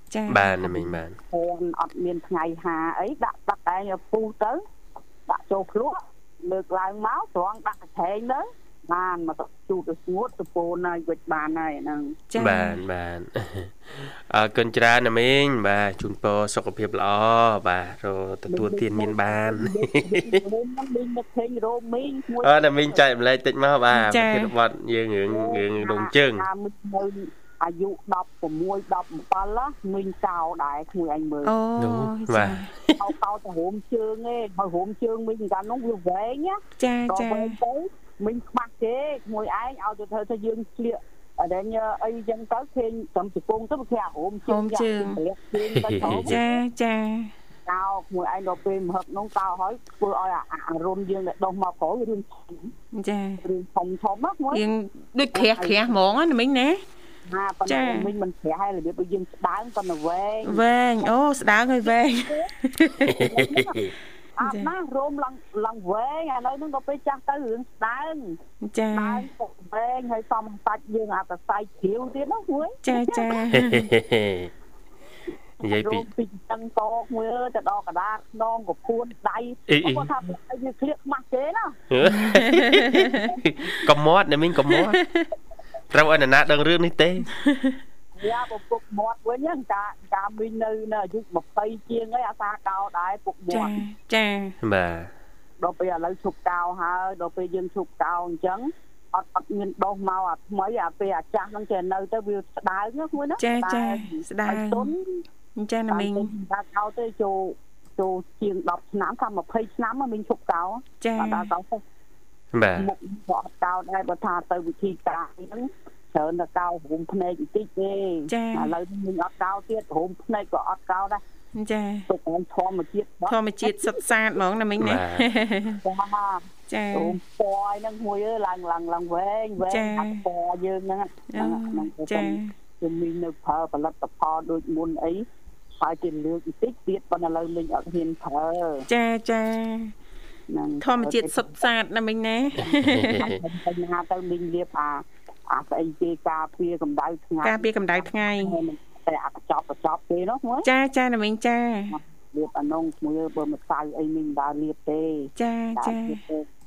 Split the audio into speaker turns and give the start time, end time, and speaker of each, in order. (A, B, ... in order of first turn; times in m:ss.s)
0:00.1-0:01.0 A
0:00.3-0:01.2 B
0:01.3-0:04.6 C
0:05.3-0:12.2 C
0:12.3-0:12.8 A
0:12.4-0:20.4 B
0:18.5-0:23.0 C
0:22.4-0:26.5 B
0:23.9-0:24.5 A
0:25.3-0:31.5 C
0:31.4-0:32.7 A
0:31.8-0:33.0 B
0:32.9-0:46.6 C
0:36.8-0:37.6 A
0:44.5-0:45.2 A
0:45.6-0:46.4 B
0:46.0-0:47.3 A
0:47.7-0:52.7 C
0:52.9-0:53.4 A
0:53.4-0:54.6 C
0:54.5-0:56.8 A
0:55.3-0:55.9 C
0:57.3-1:01.1 C
0:57.7-0:58.1 A
1:00.4-1:03.2 A
1:02.2-1:02.5 C
1:03.0-1:03.9 B
1:03.1-1:03.8 C
1:04.4-1:08.4 C
1:04.4-1:04.7 A
1:08.6-1:09.3 A
1:08.9-1:13.3 C
1:12.8-1:13.9 A
1:13.5-1:14.5 B
1:15.6-1:16.1 B
1:15.6-1:21.8 C
1:19.7-1:20.1 B
1:21.9-1:25.0 B
1:22.0-1:23.3 A
1:24.7-1:25.3 A
1:25.9-1:27.3 B
1:27.3-1:27.8 A
1:28.2-1:33.8 C
1:33.5-1:34.6 A
1:34.6-1:35.1 B
1:35.6-1:45.2 C
1:43.4-1:44.9 A
1:45.6-1:46.3 A
1:45.9-1:51.8 C
1:51.0-1:51.5 A
1:52.5-1:52.9 B
1:52.8-2:01.2 C
1:58.3-1:58.7 A
2:01.6-2:02.1 A
2:02.1-2:04.0 C
2:03.3-2:05.8 A
2:04.8-2:05.3 B
2:05.8-2:15.3 C
2:06.7-2:07.2 A
2:09.7-2:10.2 A
2:11.3-2:12.5 A
2:15.8-2:18.9 C
2:18.9-2:19.9 A
2:20.5-2:21.4 C
2:20.8-2:23.3 A
2:22.7-2:23.4 B
2:22.7-2:30.7 C
2:27.4-2:28.6 A
2:30.6-2:32.0 A
2:31.9-2:36.5 C
2:35.4-2:36.2 A